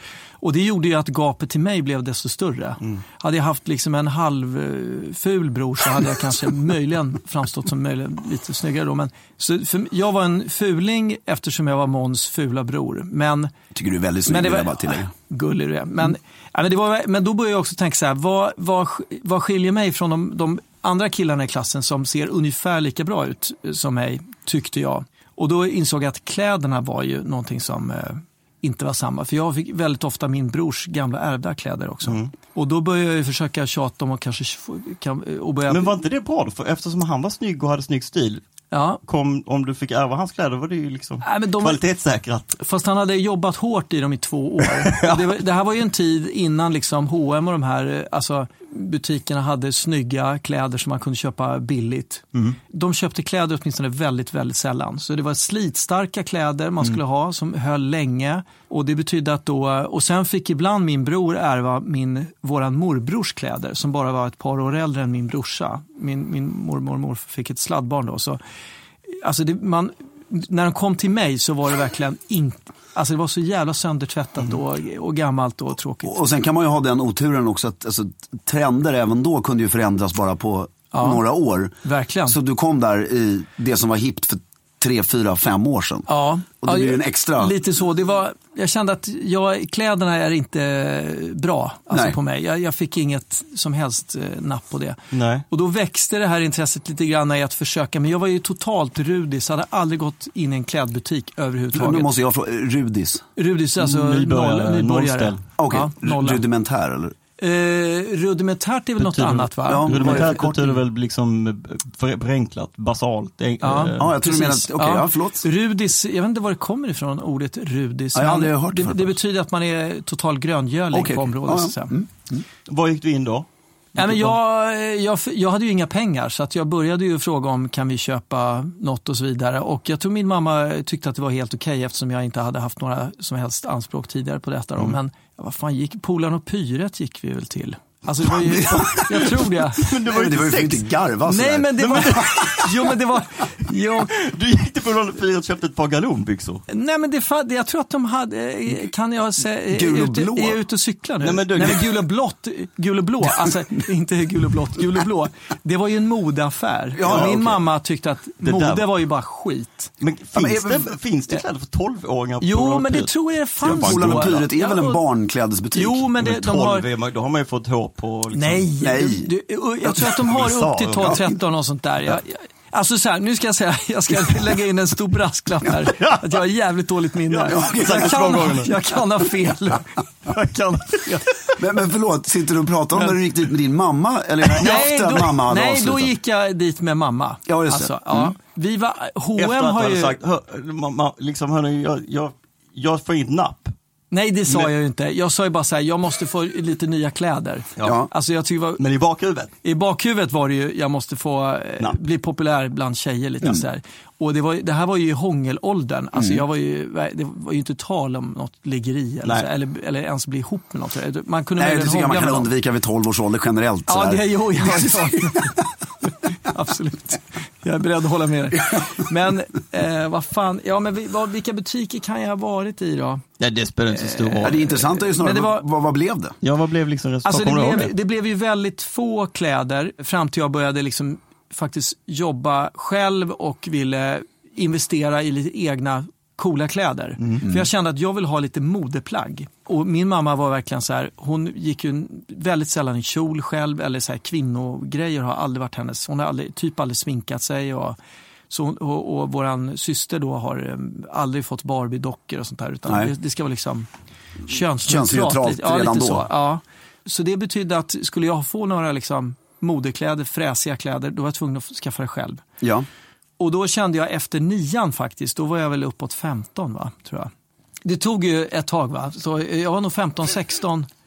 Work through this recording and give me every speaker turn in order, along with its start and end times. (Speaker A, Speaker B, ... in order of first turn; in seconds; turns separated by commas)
Speaker A: 0.4-13.5, Speaker B: 13.7-15.1, Speaker A: 14.2-36.0, Speaker C: 32.0-32.3, Speaker C: 35.7-38.4, Speaker A: 38.7-39.0, Speaker C: 39.0-42.6, Speaker A: 41.2-41.8, Speaker A: 42.6-68.4, Speaker C: 44.9-45.2, Speaker A: 69.1-76.2, Speaker B: 76.0-86.1, Speaker A: 80.9-81.2, Speaker A: 81.8-82.4, Speaker A: 86.1-95.0, Speaker B: 86.6-87.6, Speaker C: 95.1-95.4, Speaker A: 95.5-102.1, Speaker B: 101.7-103.2, Speaker A: 103.4-106.4, Speaker C: 103.8-105.4, Speaker B: 105.6-107.1, Speaker A: 107.4-110.8, Speaker C: 109.0-114.1, Speaker B: 109.7-110.4, Speaker A: 113.6-121.9, Speaker B: 114.0-115.4, Speaker B: 118.1-119.1, Speaker B: 120.9-122.4, Speaker C: 122.7-124.4, Speaker A: 124.0-139.8, Speaker B: 138.5-139.0, Speaker C: 138.7-140.9, Speaker B: 140.1-142.2, Speaker A: 141.2-144.1, Speaker C: 141.8-142.7, Speaker C: 144.1-146.6, Speaker A: 146.7-159.9, Speaker B: 149.7-150.6, Speaker C: 151.2-152.0, Speaker B: 156.9-157.6, Speaker C: 157.1-157.4, Speaker C: 158.4-159.0, Speaker C: 160.0-164.3, Speaker B: 160.3-160.9, Speaker A: 162.4-165.0, Speaker B: 163.6-166.1, Speaker A: 165.7-166.8, Speaker C: 166.2-168.7, Speaker A: 168.3-181.2, Speaker B: 168.8-169.3, Speaker C: 170.0-171.3, Speaker C: 175.8-176.4, Speaker C: 177.3-178.7, Speaker B: 177.5-178.4, Speaker C: 180.3-181.0, Speaker B: 181.6-186.1, Speaker A: 184.5-190.2, Speaker B: 187.5-188.3, Speaker C: 189.4-193.7, Speaker A: 194.1-198.8, Speaker B: 197.8-198.1, Speaker C: 198.8-199.5, Speaker A: 199.6-212.5, Speaker B: 206.1-206.4, Speaker B: 211.6-215.5, Speaker A: 213.9-223.2, Speaker C: 223.4-224.6, Speaker A: 223.9-225.7, Speaker B: 224.4-226.4, Speaker C: 226.4-227.9, Speaker A: 227.2-248.0, Speaker A: 248.5-253.9, Speaker B: 252.9-253.1, Speaker A: 254.4-262.4, Speaker B: 254.8-256.3, Speaker B: 262.6-262.9, Speaker A: 263.4-267.3, Speaker A: 267.8-270.9